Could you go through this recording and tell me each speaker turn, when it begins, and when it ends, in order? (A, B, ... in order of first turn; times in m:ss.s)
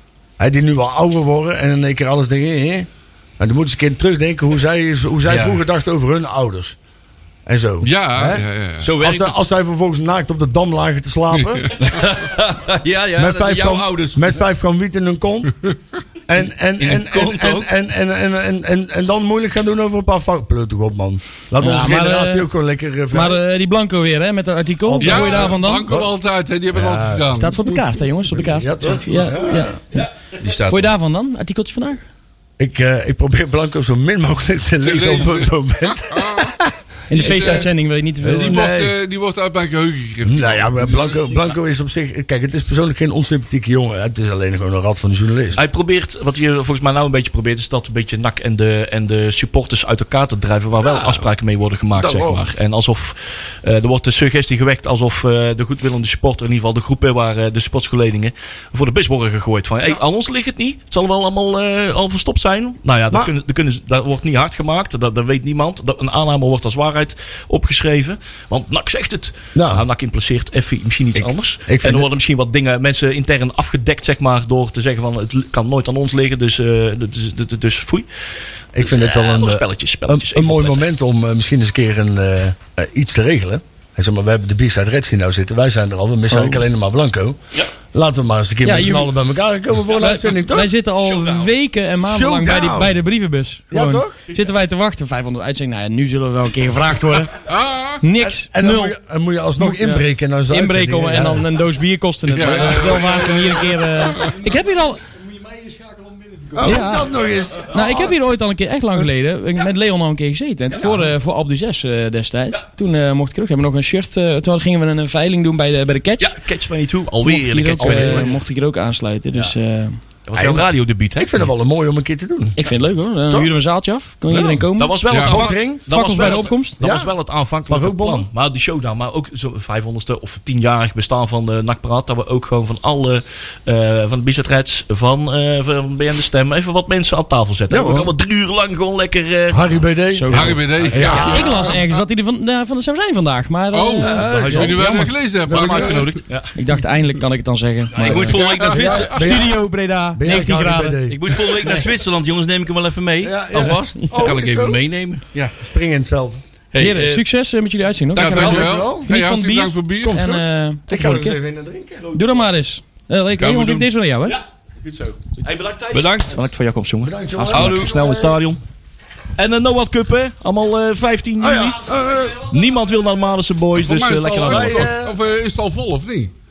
0:00.4-0:06.8 A
0:05.3-0:05.6 B
0:07.5-0:11.8 A
0:07.8-0:08.9 C
0:08.8-0:09.4 B
0:11.4-0:11.7 C
0:11.8-0:14.4 B
0:13.2-0:15.6 A
0:16.3-0:23.4 A
0:16.8-0:17.7 B
0:21.6-0:22.5 D
0:23.1-0:25.9 D
0:24.8-0:26.1 A
0:25.0-0:27.8 C
0:26.7-0:27.3 A
0:27.3-0:29.8 D
0:28.4-0:29.8 A
0:28.8-0:30.1 E
0:30.4-0:30.9 B
0:30.7-0:32.0 D
0:32.6-0:36.7 A
0:34.8-0:36.6 C
0:37.1-0:38.7 D
0:37.1-0:37.7 C
0:37.2-0:37.6 A
0:38.2-0:39.0 A
0:38.4-0:41.3 C
0:40.2-0:45.6 A
0:45.6-1:18.1 E
0:50.9-0:51.2 A
0:52.0-0:52.4 A
1:09.6-1:09.8 A
1:11.7-1:12.1 A
1:18.8-1:27.4 A
1:18.8-1:20.9 E
1:26.3-1:26.6 D
1:27.9-1:30.7 A
1:28.6-1:29.1 D
1:29.9-1:37.4 D
1:31.2-1:31.5 E
1:32.0-1:33.0 A
1:33.7-1:34.2 A
1:37.5-1:38.0 C
1:38.0-1:39.0 D
1:38.2-1:41.5 A
1:39.6-1:45.0 D
1:42.3-1:44.4 C
1:46.6-1:48.1 A
1:46.6-1:47.1 D
1:47.6-1:56.4 D
1:56.2-1:58.4 E
1:57.2-2:00.0 D
1:57.8-1:58.3 A
2:00.3-2:01.4 E
2:00.4-2:02.6 A
2:02.6-2:06.8 D
2:04.3-2:19.9 E
2:05.1-2:05.4 C
2:05.2-2:06.0 A
2:06.8-2:07.1 A
2:07.7-2:08.3 A
2:17.7-2:18.1 A
2:19.5-2:21.8 A
2:20.2-2:25.2 D
2:20.3-2:21.8 C
2:20.8-2:21.3 E
2:23.7-2:26.2 C
2:24.0-2:26.2 A
2:24.1-2:24.9 E
2:25.5-2:26.5 E
2:26.6-2:31.0 D
2:27.9-2:29.4 B
2:28.2-2:29.3 C
2:28.6-2:29.6 A
2:30.2-2:31.7 A
2:31.1-2:35.3 B
2:33.2-2:34.8 A
2:35.5-2:36.4 A
2:36.7-2:37.2 B
2:36.8-2:41.4 D
2:38.2-2:40.2 C
2:38.2-2:39.1 A
2:40.0-2:42.1 A
2:42.0-2:42.4 E
2:42.1-2:44.4 D
2:43.4-2:43.9 B
2:44.3-2:48.6 E
2:45.9-2:46.4 B
2:47.0-2:48.4 A
2:47.5-2:48.1 B
2:49.4-2:54.9 E
2:51.4-2:52.4 A
2:53.8-2:56.3 C
2:54.4-2:55.2 A